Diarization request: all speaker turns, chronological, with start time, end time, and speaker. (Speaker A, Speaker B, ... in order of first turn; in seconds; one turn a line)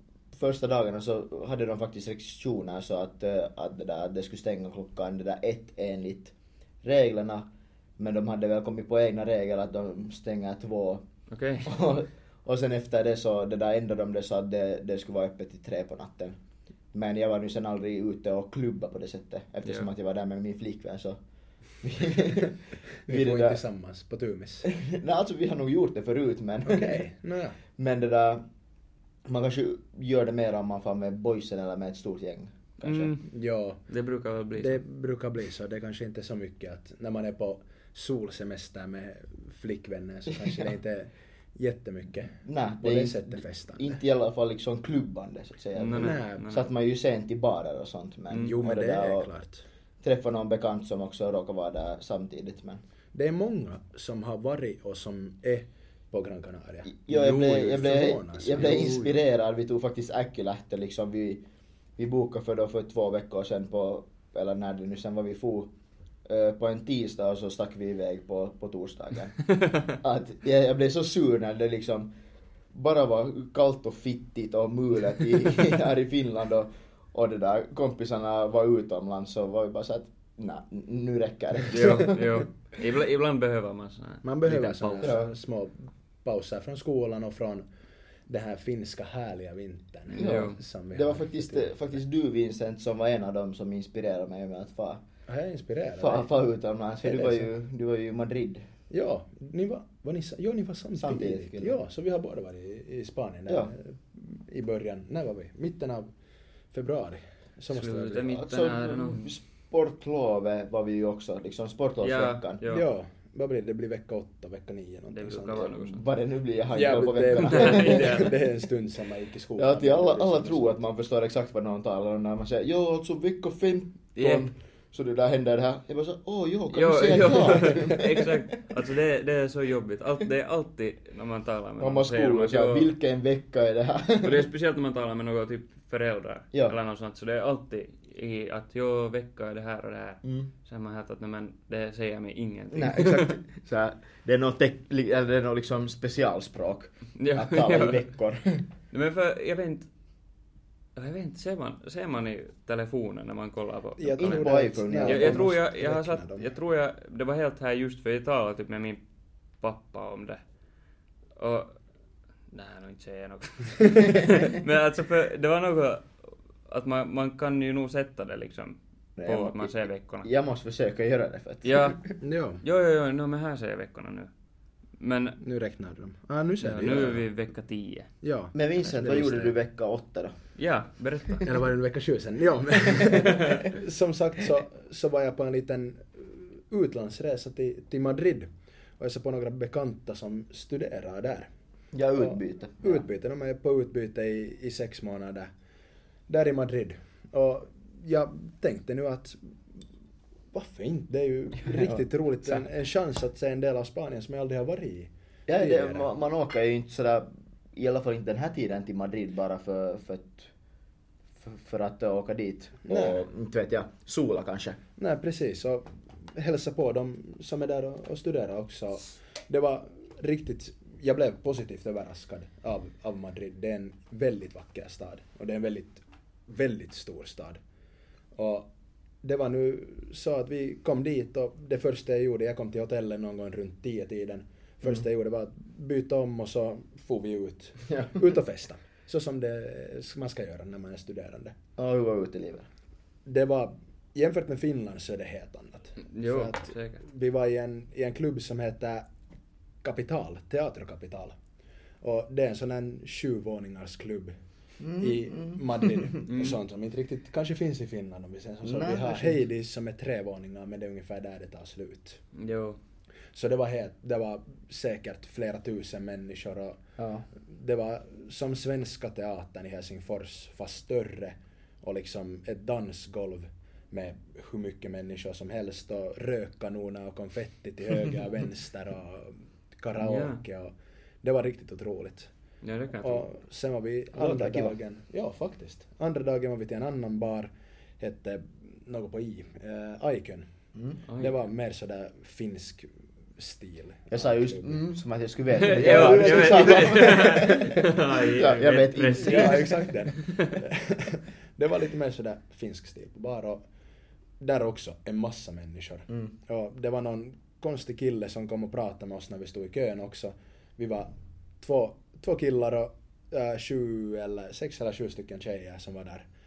Speaker A: 0.3-11.1
Speaker B: 11.3-11.7
Speaker A: 11.6-16.4
Speaker A: 16.9-21.2
Speaker A: 21.8-23.6
Speaker C: 23.1-24.7
Speaker A: 24.6-27.0
Speaker C: 26.6-27.6
Speaker A: 27.8-28.4
Speaker A: 29.3-33.2
Speaker B: 32.8-33.3
Speaker C: 33.2-33.8
Speaker B: 33.9-34.8
Speaker C: 34.6-44.0
Speaker A: 42.4-49.3
Speaker B: 45.8-46.7
Speaker C: 46.0-46.5
Speaker C: 48.3-49.6
Speaker A: 50.0-52.8
Speaker C: 53.1-59.2
Speaker A: 56.9-61.4
Speaker A: 62.0-65.7
Speaker A: 66.3-72.1
Speaker B: 69.5-69.9
Speaker A: 72.7-82.4
Speaker B: 81.7-85.2
Speaker C: 84.2-87.7
Speaker A: 85.0-85.3
Speaker C: 88.3-91.7
Speaker B: 90.1-90.6
Speaker A: 90.1-95.0
Speaker C: 95.3-96.3
Speaker A: 96.0-98.7
Speaker C: 97.0-97.5
Speaker C: 98.9-106.1
Speaker A: 101.0-101.8
Speaker C: 106.7-108.3
Speaker B: 107.7-109.3
Speaker A: 108.2-112.6
Speaker B: 112.0-112.9
Speaker C: 112.7-115.6
Speaker B: 115.1-116.1
Speaker A: 115.5-118.3
Speaker C: 116.7-120.8
Speaker B: 117.4-118.4
Speaker A: 119.6-128.4
Speaker B: 124.2-124.5
Speaker B: 126.7-132.9
Speaker A: 131.8-134.5
Speaker B: 134.2-143.4
Speaker A: 140.2-140.5
Speaker A: 142.7-148.7
Speaker B: 147.2-148.0
Speaker B: 148.9-149.9
Speaker B: 151.0-159.0
Speaker C: 154.0-156.5
Speaker A: 154.2-155.5
Speaker B: 159.6-160.4
Speaker B: 161.4-161.8
Speaker B: 162.5-166.1
Speaker B: 166.7-170.3
Speaker A: 169.2-172.1
Speaker B: 171.7-174.3
Speaker C: 172.2-172.6
Speaker B: 175.0-175.4
Speaker C: 175.4-177.2
Speaker B: 176.6-178.1
Speaker C: 178.2-179.5
Speaker A: 178.5-180.4
Speaker B: 180.6-181.5
Speaker C: 181.4-188.5
Speaker C: 189.0-191.5
Speaker A: 191.9-193.1
Speaker C: 192.2-195.5
Speaker C: 196.3-199.4
Speaker C: 200.5-206.1
Speaker A: 201.6-202.6
Speaker A: 205.5-210.5
Speaker A: 211.4-214.8
Speaker C: 212.8-213.3
Speaker C: 215.0-227.6
Speaker C: 228.3-228.7
Speaker C: 229.2-241.6
Speaker A: 241.8-242.7
Speaker C: 243.3-249.1
Speaker B: 246.1-247.0
Speaker C: 249.8-251.3
Speaker C: 252.0-254.4
Speaker A: 254.8-256.2
Speaker C: 255.0-262.2
Speaker B: 256.3-256.6
Speaker A: 258.6-259.4
Speaker B: 262.4-262.8
Speaker C: 263.3-266.8
Speaker A: 267.0-267.3
Speaker C: 267.3-282.3
Speaker B: 280.0-280.4
Speaker B: 282.6-283.3
Speaker C: 283.0-290.5
Speaker A: 284.1-284.8
Speaker B: 291.1-291.4
Speaker C: 291.2-294.8
Speaker A: 294.1-299.7
Speaker B: 295.6-300.5
Speaker C: 295.6-297.9
Speaker C: 299.2-303.7
Speaker C: 304.4-316.3